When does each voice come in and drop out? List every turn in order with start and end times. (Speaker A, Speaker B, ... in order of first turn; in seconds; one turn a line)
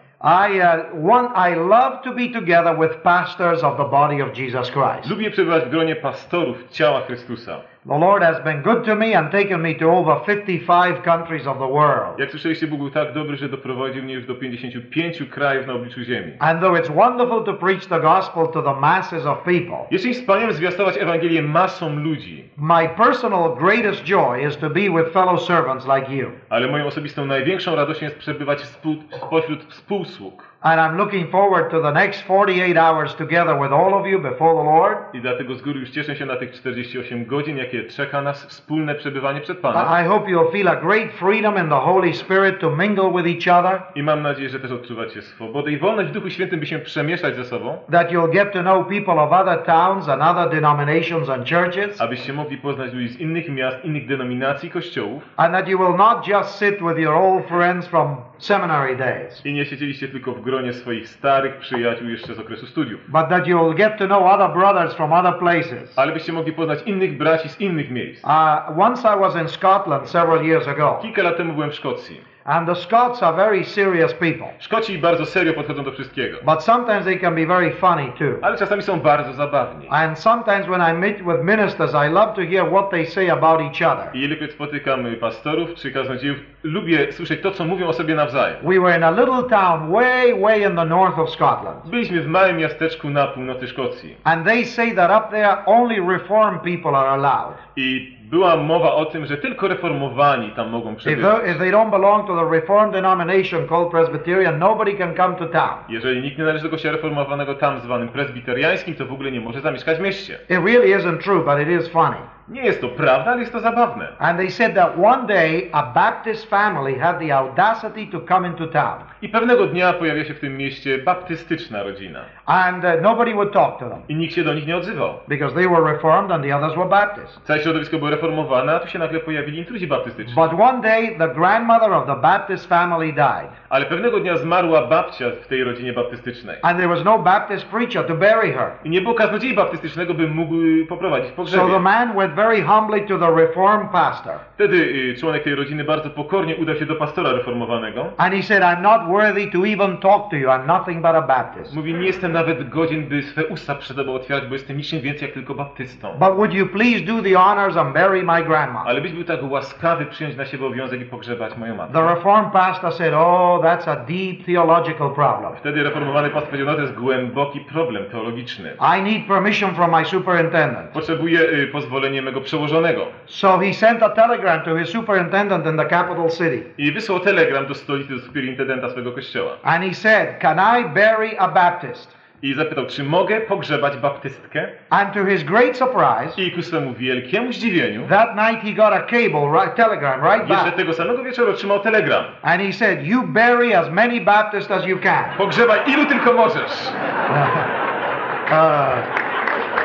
Speaker A: 0.2-5.1
Speaker B: 5.0-7.6
Speaker A: 7.8-12.2
Speaker B: 12.2-16.4
Speaker A: 16.4-19.9
Speaker B: 19.9-22.5
Speaker A: 22.6-26.4
Speaker B: 26.5-30.5
Speaker A: 30.6-35.0
Speaker B: 35.1-39.9
Speaker A: 39.7-43.8
Speaker B: 43.9-47.8
Speaker A: 47.9-52.0
Speaker B: 52.0-55.3
Speaker A: 55.4-59.4
Speaker B: 59.4-63.0
Speaker A: 63.1-66.0
Speaker B: 66.0-68.2
Speaker A: 68.2-71.0
Speaker B: 71.0-72.2
Speaker A: 72.4-74.5
Speaker B: 74.6-76.4
Speaker A: 76.4-78.5
Speaker B: 78.4-79.9
Speaker A: 79.9-84.1
Speaker B: 84.1-88.6
Speaker A: 88.6-91.9
Speaker B: 91.8-94.2
Speaker A: 94.2-97.6
Speaker B: 97.8-101.6
Speaker A: 101.0-105.8
Speaker B: 105.9-110.4
Speaker A: 110.5-112.3
Speaker B: 112.5-114.2
Speaker A: 114.2-119.1
Speaker B: 119.2-122.3
Speaker A: 122.5-124.1
Speaker B: 124.1-125.2
Speaker A: 125.3-127.4
Speaker B: 127.4-130.4
Speaker A: 130.2-133.5
Speaker B: 133.7-136.6
Speaker A: 136.6-138.8
Speaker B: 138.8-141.8
Speaker A: 141.5-144.4
Speaker B: 144.6-148.2
Speaker A: 148.2-151.7
Speaker B: 151.7-156.2
Speaker A: 156.2-158.9
Speaker B: 158.8-162.1
Speaker A: 161.9-165.6
Speaker B: 165.6-168.8
Speaker A: 168.8-170.9
Speaker B: 170.9-173.2
Speaker A: 173.3-176.7
Speaker B: 176.8-179.6
Speaker A: 179.6-182.1
Speaker B: 182.4-184.7
Speaker A: 184.9-186.4
Speaker B: 186.3-188.1
Speaker A: 188.0-190.7
Speaker B: 190.4-192.4
Speaker A: 192.4-195.4
Speaker B: 195.3-196.9
Speaker A: 197.3-197.8
Speaker A: 198.5-199.1